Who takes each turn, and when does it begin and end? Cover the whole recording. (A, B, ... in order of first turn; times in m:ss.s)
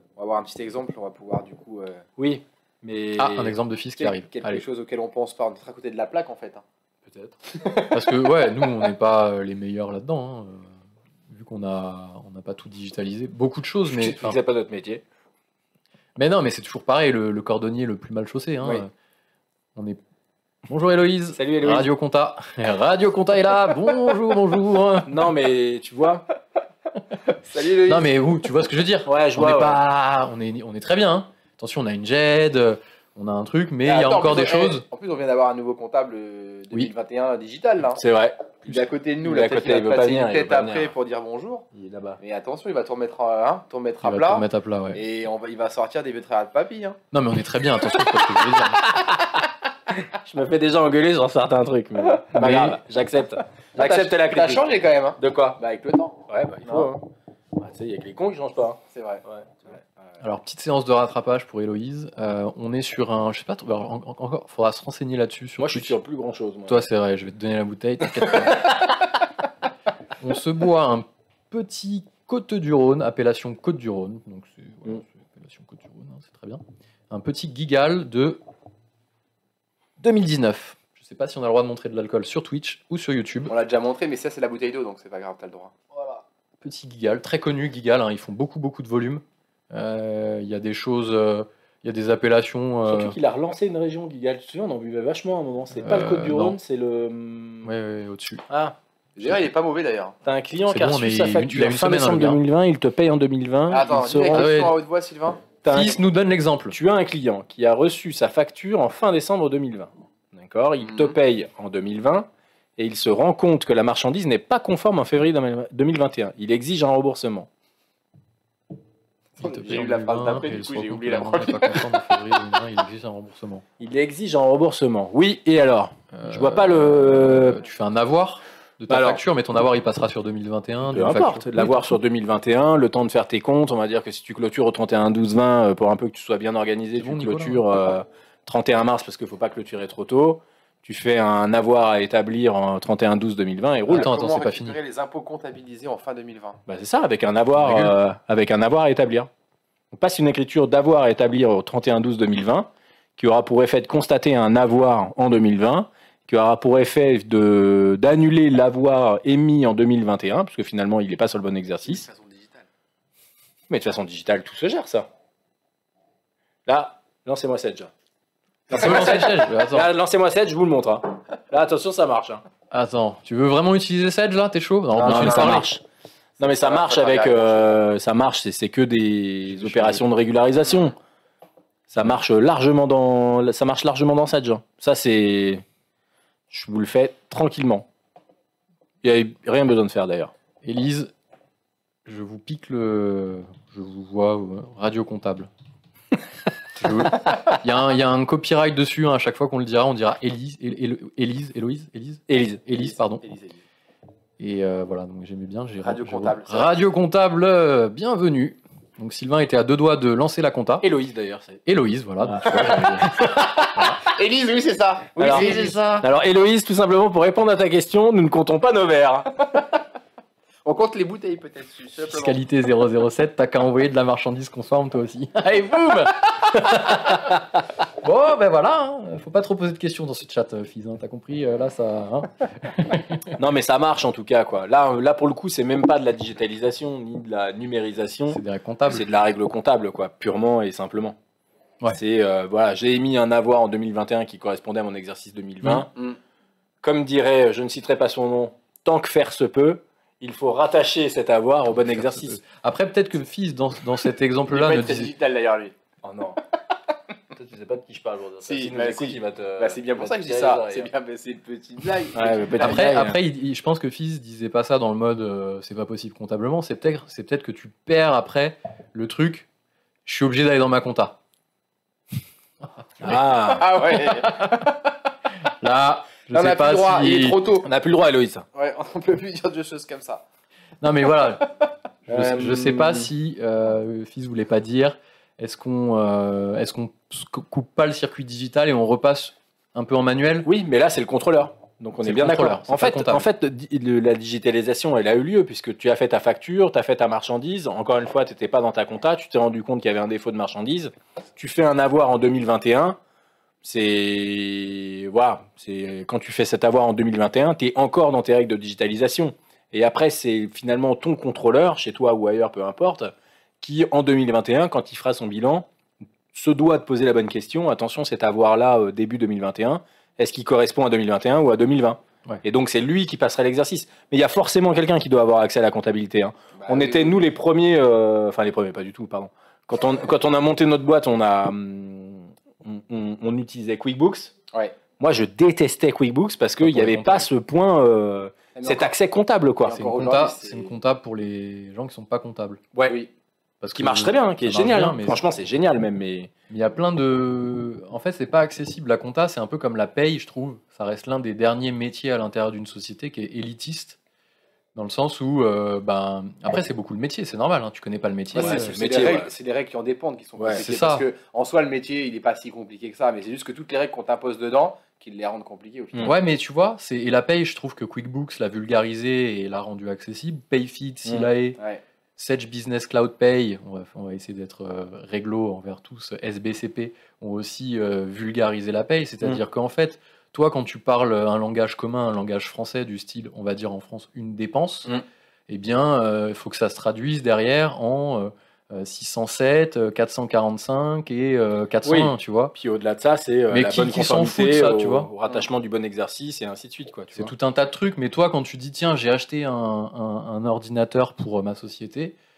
0:00.2-0:02.1 A
0:02.2-0:03.6 B
0:03.2-0:04.6 C
0:04.0-0:06.6 A
0:07.1-0:07.4 B
0:07.5-0:08.3 A
0:07.9-0:10.7 C
0:11.3-0:14.4 C
0:13.9-0:15.0 B
0:16.2-0:18.9 C
0:20.7-0:25.2 C
0:21.4-0:21.9 B
0:25.1-0:26.3 B
0:27.4-0:28.2 A
0:27.8-0:34.8 C
0:29.1-0:29.8 B
0:33.8-0:38.0 A
0:38.0-0:40.9 B
0:38.6-0:41.7 A
0:41.7-0:42.2 B
0:42.2-0:47.0 A
0:44.0-0:45.0 C
0:47.1-0:49.0 C
0:48.0-0:54.7 B
0:52.4-0:52.8 C
0:53.8-0:57.0 A
0:55.2-0:55.6 B
0:56.3-0:57.0 B
0:57.6-0:59.6 B
0:58.9-1:00.2 A
1:00.2-1:06.0 C
1:05.6-1:06.9 B
1:06.7-1:08.9 C
1:08.2-1:08.8 B
1:10.2-1:18.4 C
1:20.0-1:23.5 C
1:23.5-1:25.8 A
1:26.6-1:33.2 C
1:32.8-1:37.7 B
1:35.8-1:36.6 C
1:37.6-1:38.4 C
1:38.5-1:38.8 B
1:39.2-1:40.2 A
1:40.2-1:44.5 B
1:40.7-1:42.4 C
1:43.7-1:45.4 A
1:44.3-1:44.8 C
1:45.6-1:46.0 B
1:45.7-1:46.8 C
1:46.7-1:57.5 B
1:50.8-1:51.2 A
1:59.4-2:02.0 A
1:59.4-2:03.6 C
2:03.8-2:07.6 B
2:06.1-2:11.9 C
2:08.9-2:09.2 B
2:10.8-2:24.1 B
2:17.0-2:17.6 C
2:23.9-2:24.8 C
2:23.9-2:26.6 A
2:26.7-2:29.3 B
2:27.6-2:28.0 C
2:29.9-2:42.0 B
2:41.8-2:42.7 A
2:43.7-2:45.1 B
2:46.7-2:47.9 B
2:48.7-2:52.4 B
2:48.7-2:49.9 C
2:52.7-2:55.7 C
2:54.9-2:55.7 A
2:55.0-2:55.8 B
2:56.4-2:57.8 A
2:56.4-3:01.0 B
2:59.5-3:00.0 C
3:01.9-3:05.6 B
3:06.5-3:07.9 B
3:09.0-3:10.3 B
3:10.6-3:11.1 C
3:12.1-3:15.5 C
3:16.8-3:23.2 C
3:22.3-3:22.6 B
3:22.8-3:23.6 A
3:24.4-3:30.9 C
3:25.8-3:26.8 A
3:30.8-3:31.6 B
3:31.7-3:33.2 C
3:32.3-3:34.0 B
3:33.3-3:36.1 A
3:35.2-3:39.3 B
3:35.3-3:35.8 C
3:40.6-3:42.4 A
3:42.0-3:47.3 C
3:48.0-3:53.2 C
3:53.4-4:01.2 B
3:58.3-3:59.1 C
4:01.9-4:05.9 B
4:06.8-4:12.4 B
4:11.8-4:15.1 C
4:14.5-4:15.8 A
4:16.0-4:16.4 B
4:17.3-4:20.9 B
4:18.4-4:22.9 A
4:22.1-4:23.2 B
4:22.6-4:29.5 C
4:30.0-4:31.2 C
4:33.0-4:33.7 B
4:33.5-4:35.0 A
4:35.6-4:37.4 C
4:36.3-4:37.7 A
4:37.6-4:38.5 B
4:38.5-4:40.2 A
4:40.8-4:41.5 C
4:42.1-4:50.5 C
4:42.1-4:43.1 B
4:50.4-5:03.0 B
4:52.0-4:53.2 C
5:03.6-5:15.7 B
5:16.3-5:34.4 B
5:26.6-5:27.2 A
5:35.0-5:39.8 B
5:36.6-5:37.3 C
5:38.6-5:38.9 A
5:39.6-5:40.7 A
5:39.7-5:42.6 C
5:42.7-5:43.0 B
5:42.9-5:43.1 A
5:43.6-5:45.2 C
5:43.8-5:46.3 B
5:46.5-5:54.0 C
5:54.8-5:58.8 C
5:58.3-5:59.3 B
5:58.3-6:06.2 A
6:00.4-6:00.6 B
6:00.5-6:01.1 C
6:06.0-6:11.6 C
6:12.2-6:24.9 C
6:25.5-6:32.5 C
6:31.8-6:37.3 B
6:33.5-6:35.1 C
6:37.2-6:42.2 C